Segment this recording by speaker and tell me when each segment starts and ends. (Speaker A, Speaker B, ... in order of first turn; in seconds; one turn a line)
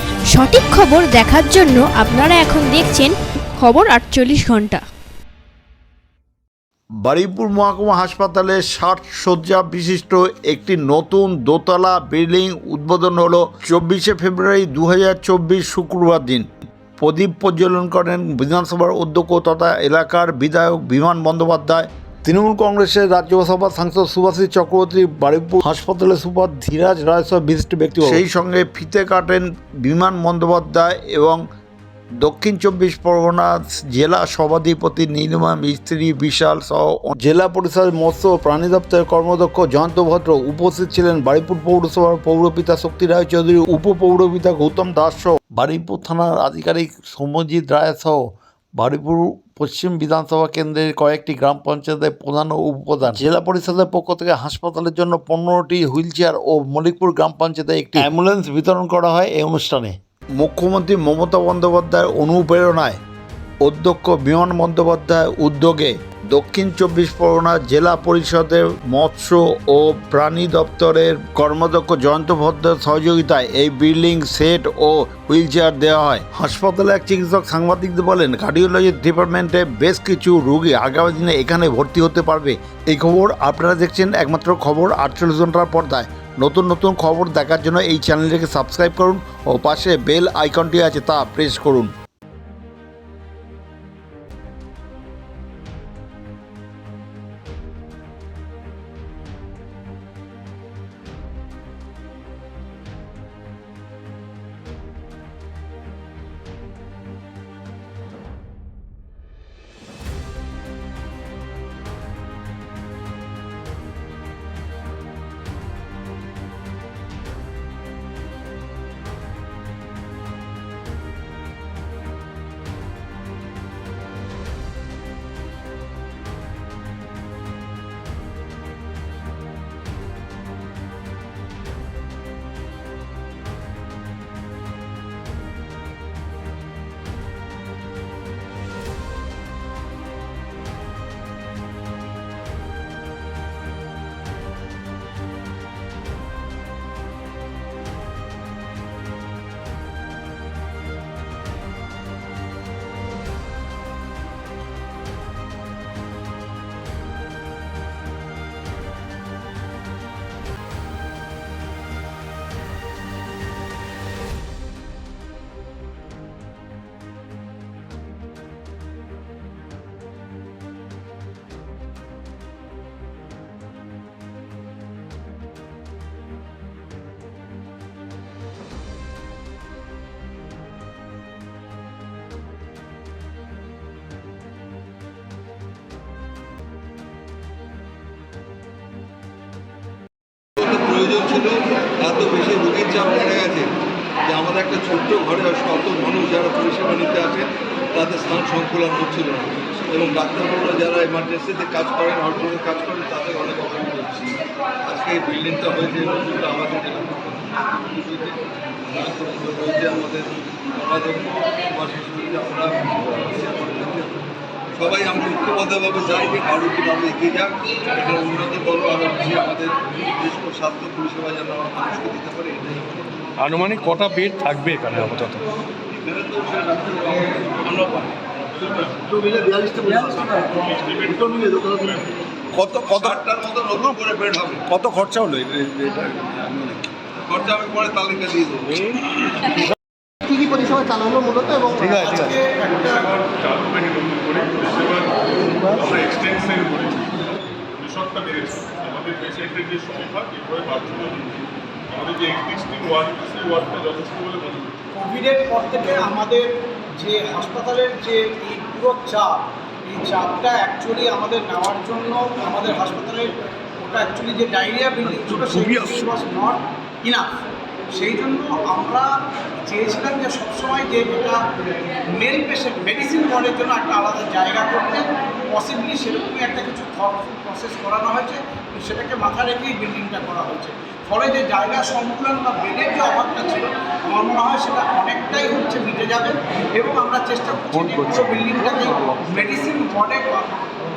Speaker A: 0.3-4.8
Speaker B: 7.0-16.5
Speaker B: 17.0-31.4
Speaker B: 32.2-48.2
Speaker B: 48.8-63.0
Speaker B: 63.6-91.9
Speaker C: 190.6-193.7
Speaker C: 194.2-223.0
Speaker D: 223.4-225.4
Speaker C: 225.9-230.6
Speaker E: 230.8-232.1
Speaker C: 231.2-231.8
Speaker C: 232.5-239.6
Speaker C: 241.6-241.9
Speaker F: 241.9-243.1
Speaker E: 243.2-247.2
Speaker E: 247.8-251.4
Speaker E: 251.9-254.8
Speaker F: 254.9-267.3
Speaker F: 267.9-271.4
Speaker F: 272.1-290.5
Speaker D: 287.6-289.4